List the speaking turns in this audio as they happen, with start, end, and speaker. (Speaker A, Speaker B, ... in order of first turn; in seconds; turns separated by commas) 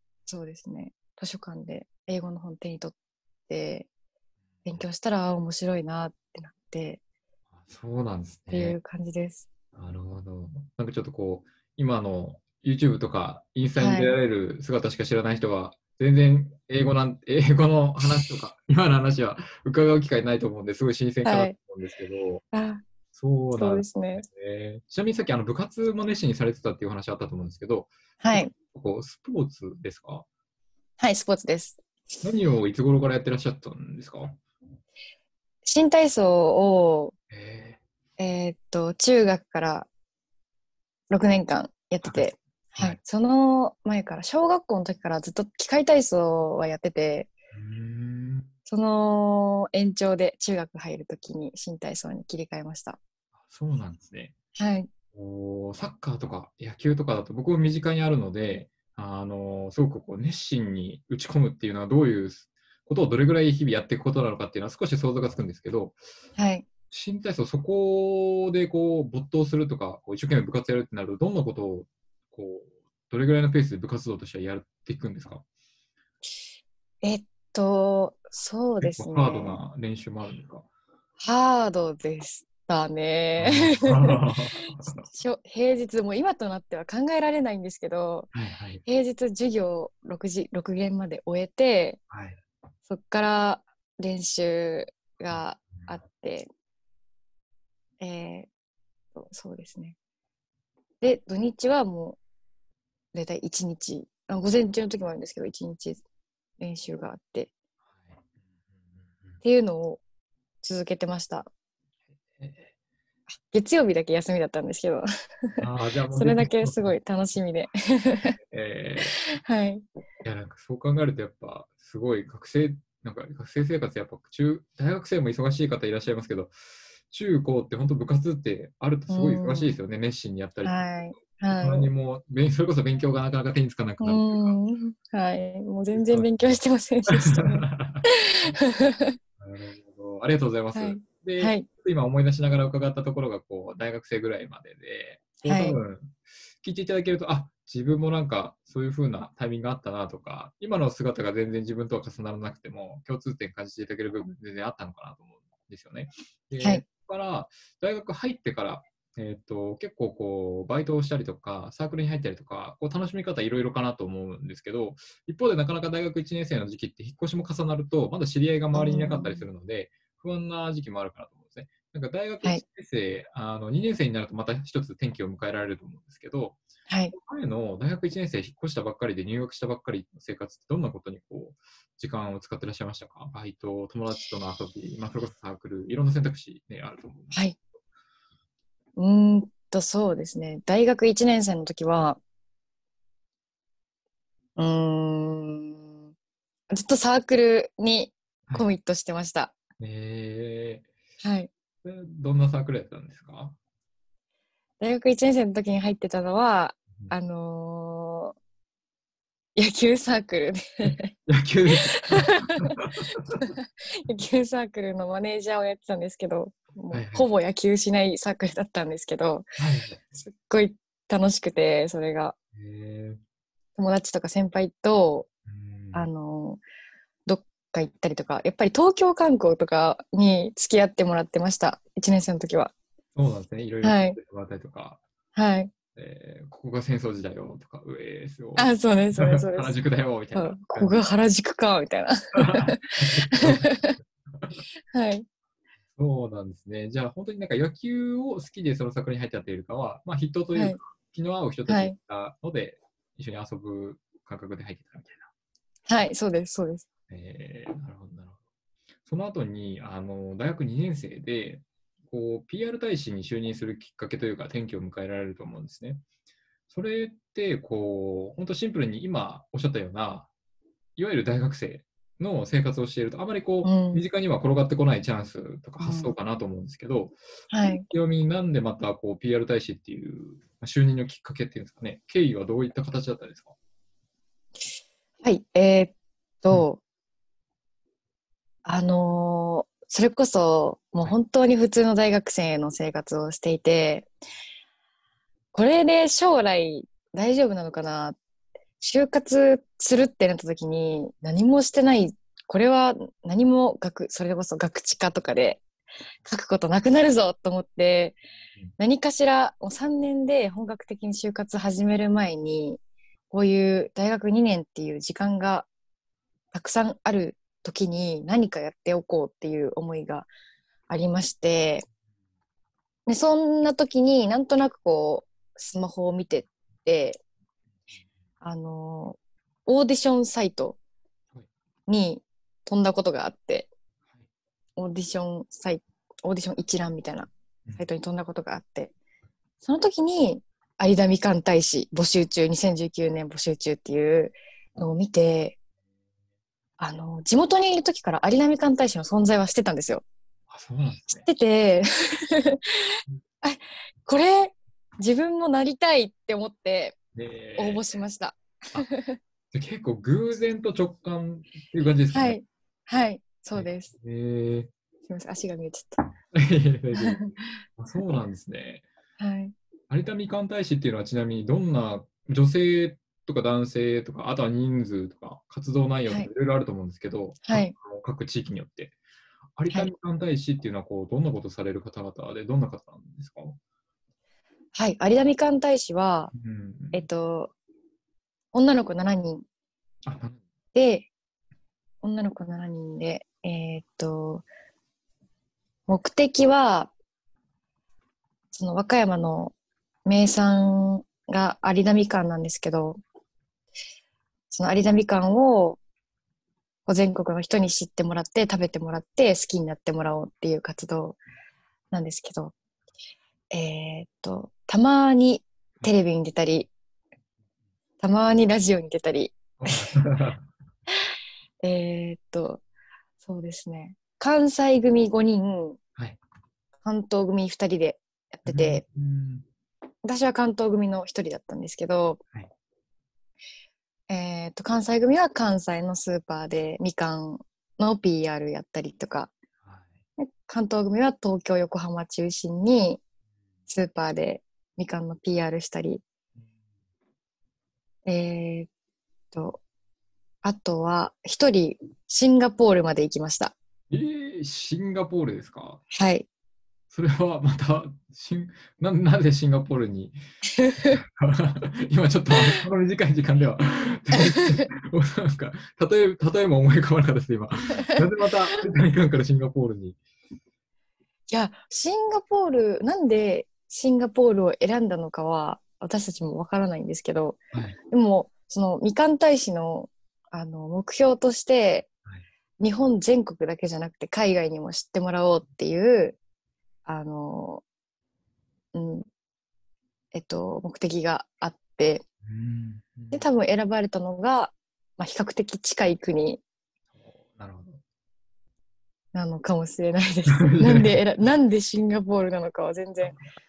Speaker A: 0.2-2.9, Speaker A: 3.5-3.9, Speaker A: 4.7-7.0, Speaker B: 7.6-8.8, Speaker A: 8.5-9.4, Speaker B: 9.7-22.4, Speaker A: 13.8-14.2, Speaker A: 21.2-21.5, Speaker A: 22.5-22.8, Speaker B: 23.1-30.2, Speaker A: 23.6-24.2, Speaker A: 28.2-28.5, Speaker A: 31.0-31.8, Speaker B: 32.2-34.4, Speaker A: 35.6-37.1, Speaker B: 37.3-37.8, Speaker A: 38.2-39.9, Speaker A: 41.1-47.3, Speaker B: 42.0-43.0, Speaker B: 47.5-48.5, Speaker A: 48.7-53.0, Speaker B: 53.5-54.3, Speaker A: 54.5-54.9, Speaker B: 55.1-66.0, Speaker A: 66.4-66.7, Speaker B: 66.9-75.4, Speaker A: 77.0-79.6, Speaker B: 78.8-80.7, Speaker A: 81.2-84.2, Speaker B: 83.4-85.0, Speaker A: 85.0-88.3, Speaker B: 88.3-88.8, Speaker A: 88.8-92.0, Speaker B: 92.1-92.4, Speaker A: 92.9-96.5, Speaker B: 95.3-96.0, Speaker A: 98.0-98.5, Speaker A: 99.1-100.0, Speaker A: 101.0-102.2, Speaker A: 103.1-106.0, Speaker A: 106.6-107.5, Speaker B: 107.9-108.2, Speaker B: 109.0-109.4, Speaker A: 109.4-110.0, Speaker A: 110.6-111.5, Speaker B: 112.3-112.7, Speaker A: 113.4-115.5, Speaker B: 115.6-117.0, Speaker A: 116.1-118.4, Speaker B: 118.5-119.2, Speaker A: 119.0-119.8, Speaker B: 120.2-126.5, Speaker B: 127.1-134.6, Speaker A: 129.1-129.7, Speaker A: 130.6-131.9, Speaker A: 134.0-139.2, Speaker B: 135.9-138.6, Speaker B: 139.4-187.4, Speaker A: 140.7-141.7, Speaker A: 145.4-145.8, Speaker A: 168.7-169.4, Speaker A: 176.9-177.1, Speaker A: 188.9-192.2, Speaker A: 194.6-196.0, Speaker A: 196.7-199.5, Speaker B: 199.8-200.9, Speaker A: 201.2-201.5, Speaker B: 201.8-203.6, Speaker A: 204.8-208.3, Speaker A: 209.6-211.1, Speaker B: 210.8-213.5, Speaker A: 211.7-212.8, Speaker A: 213.9-219.5, Speaker B: 216.9-217.3, Speaker B: 219.6-220.2, Speaker A: 220.2-222.3, Speaker B: 222.5-223.2, Speaker A: 223.8-225.3, Speaker B: 225.5-226.1, Speaker A: 225.9-226.6, Speaker A: 227.2-232.7, Speaker B: 233.1-235.0, Speaker A: 233.8-234.2, Speaker A: 235.3-235.7, Speaker B: 235.9-241.0, Speaker A: 238.6-239.7, Speaker A: 240.3-243.9, Speaker B: 242.3-244.6, Speaker A: 244.9-245.2, Speaker B: 245.9-255.3, Speaker A: 251.7-251.9, Speaker A: 255.8-256.8, Speaker B: 257.1-258.4, Speaker B: 259.0-266.0, Speaker B: 266.7-270.3, Speaker B: 271.0-277.1, Speaker A: 273.6-274.0, Speaker A: 275.8-276.1, Speaker A: 277.5-277.9, Speaker B: 277.7-283.5, Speaker A: 285.2-286.8, Speaker A: 288.6-294.1, Speaker A: 295.5-298.2, Speaker A: 298.8-305.6, Speaker A: 306.2-308.2, Speaker A: 308.8-312.8, Speaker A: 313.3-315.7, Speaker A: 316.5-320.3, Speaker A: 320.9-321.9, Speaker A: 323.1-327.2, Speaker A: 328.4-330.8, Speaker A: 331.9-333.7, Speaker A: 334.8-338.9, Speaker A: 339.6-345.6, Speaker A: 346.8-350.0, Speaker B: 350.5-351.3, Speaker A: 351.2-357.0, Speaker B: 357.1-357.8, Speaker A: 357.6-359.2, Speaker B: 359.5-362.4, Speaker A: 362.1-363.9, Speaker B: 363.5-364.7, Speaker A: 365.1-366.0, Speaker B: 366.3-368.8, Speaker A: 366.9-367.3, Speaker A: 369.2-369.5, Speaker B: 369.9-378.9, Speaker A: 377.4-377.7, Speaker B: 379.6-383.6, Speaker A: 384.7-386.3, Speaker B: 386.3-387.1, Speaker A: 386.9-387.5, Speaker A: 388.5-389.4, Speaker B: 390.0-390.4, Speaker A: 390.7-391.1, Speaker A: 392.0-394.4, Speaker A: 395.9-396.9, Speaker A: 398.5-399.5, Speaker A: 400.0-403.0, Speaker A: 404.5-405.8, Speaker A: 406.9-411.2, Speaker A: 411.9-412.5, Speaker A: 413.5-416.7, Speaker A: 418.0-419.9, Speaker B: 419.6-420.5, Speaker A: 421.6-422.6, Speaker A: 423.2-425.8, Speaker A: 426.8-428.8, Speaker B: 428.4-429.4, Speaker A: 430.0-432.2, Speaker A: 434.1-439.3, Speaker B: 439.6-440.0, Speaker A: 440.2-443.0, Speaker A: 443.7-446.0, Speaker A: 448.1-448.7, Speaker A: 449.3-449.6, Speaker A: 450.4-453.5, Speaker B: 453.9-455.8, Speaker A: 455.9-456.2, Speaker B: 456.9-460.2, Speaker A: 460.6-461.0, Speaker B: 460.8-470.0, Speaker A: 464.1-464.7, Speaker A: 471.3-477.4, Speaker A: 477.9-481.9, Speaker A: 482.6-486.2, Speaker A: 486.9-487.6, Speaker A: 488.7-489.1, Speaker A: 490.1-492.0, Speaker B: 492.2-493.3, Speaker A: 493.1-496.4, Speaker B: 497.0-497.8, Speaker A: 499.1-503.2, Speaker B: 500.3-501.0